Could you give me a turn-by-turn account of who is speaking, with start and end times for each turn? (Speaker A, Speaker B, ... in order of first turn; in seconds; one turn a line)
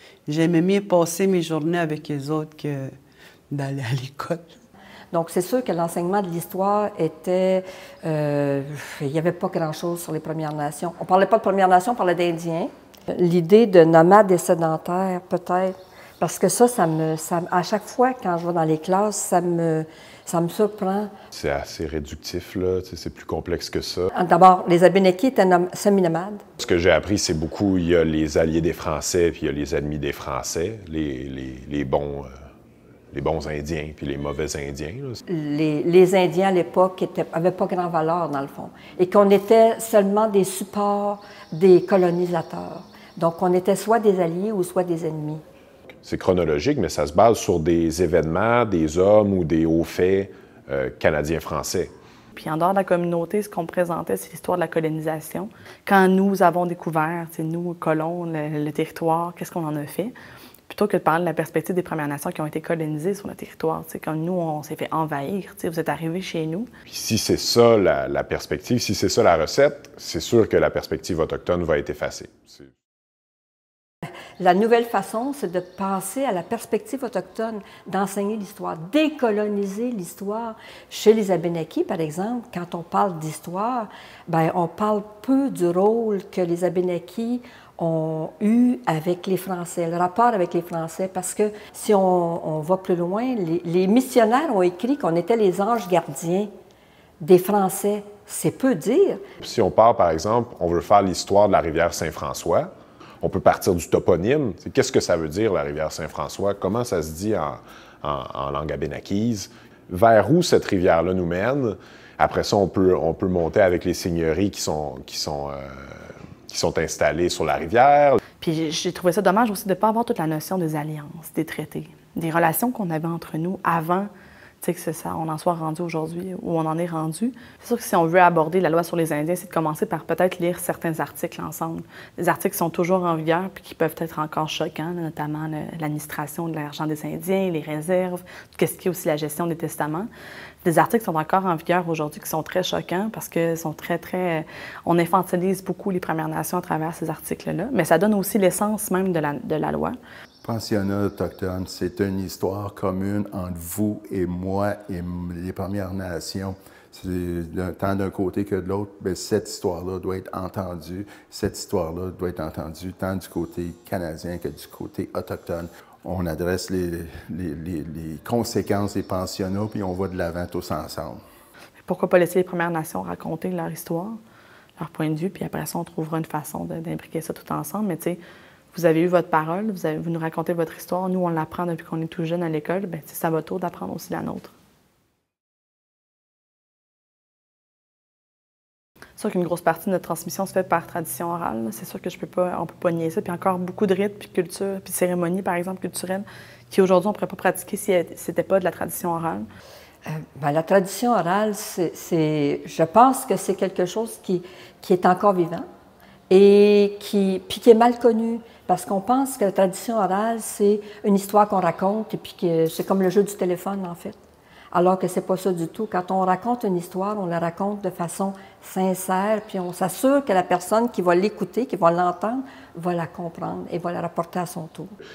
Speaker A: 0.3-2.9
Speaker A: 3.5-4.6
Speaker B: 5.1-21.1
Speaker C: 21.3-24.1
Speaker B: 24.1-26.4
Speaker C: 26.6-32.3
Speaker C: 33.1-35.2
Speaker B: 35.3-45.4
Speaker C: 46.0-51.9
Speaker D: 52.4-60.1
Speaker D: 60.7-66.7
Speaker C: 66.9-72.7
Speaker B: 74.4-96.5
Speaker B: 97.2-99.2
Speaker C: 99.4-118.2
Speaker D: 118.4-124.1
Speaker D: 124.6-140.1
Speaker D: 140.6-150.0
Speaker E: 150.4-171.2
Speaker D: 171.9-174.2
Speaker D: 174.8-178.2
Speaker D: 178.7-184.5
Speaker D: 189.2-199.5
Speaker B: 200.1-205.7
Speaker B: 206.3-214.2
Speaker B: 214.7-224.9